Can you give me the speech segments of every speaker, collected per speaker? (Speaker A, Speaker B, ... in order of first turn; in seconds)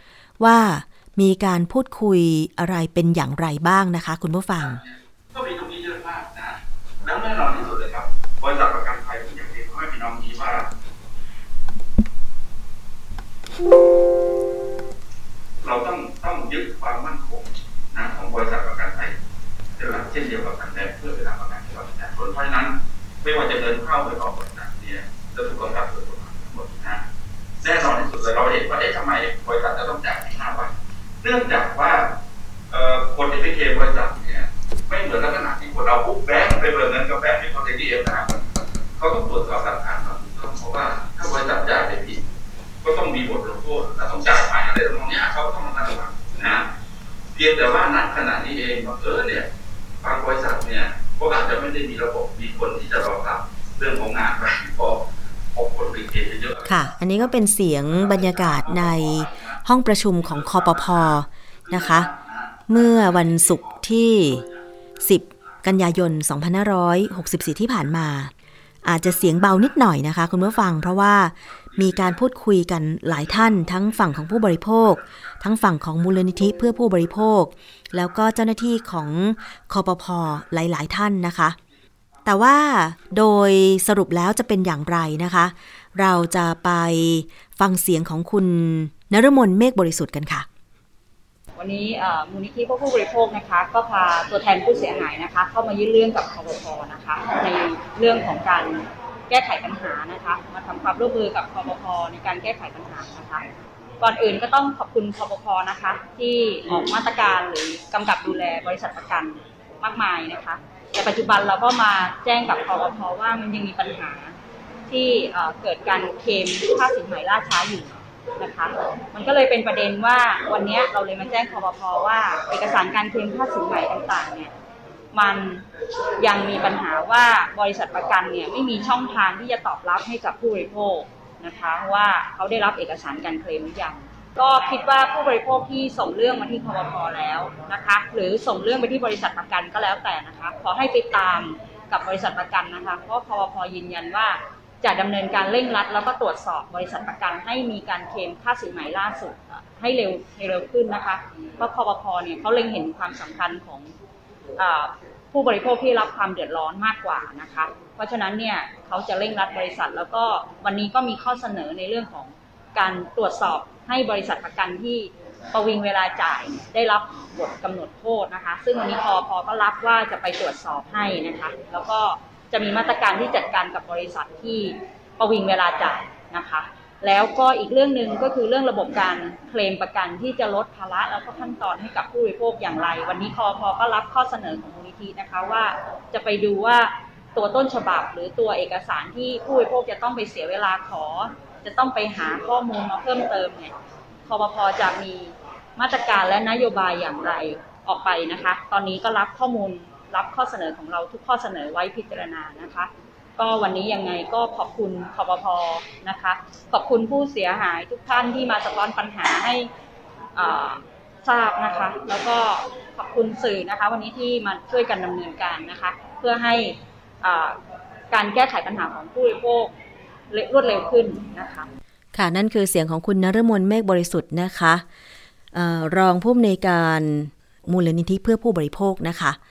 Speaker A: 0.4-4.8, 56.6-62.1, 62.7-64.4, 65.0-68.3, 68.8-81.5, 82.2-90.5, 222.1-224.8, 225.5-229.4
Speaker B: 4.6-10.7, 15.6-19.1, 19.8-27.0, 27.6-32.1, 32.7-38.3, 39.0-42.2, 42.8-46.7, 47.3-49.5, 50.0-57.3, 57.8-59.6, 60.2-64.6, 71.7-72.2
Speaker C: 91.6-103.4, 104.0-114.3, 114.9-124.5, 125.1-125.6, 126.2-153.9, 154.6-193.7, 194.3-209.7, 210.3-217.6, 218.1-219.7, 220.3-221.7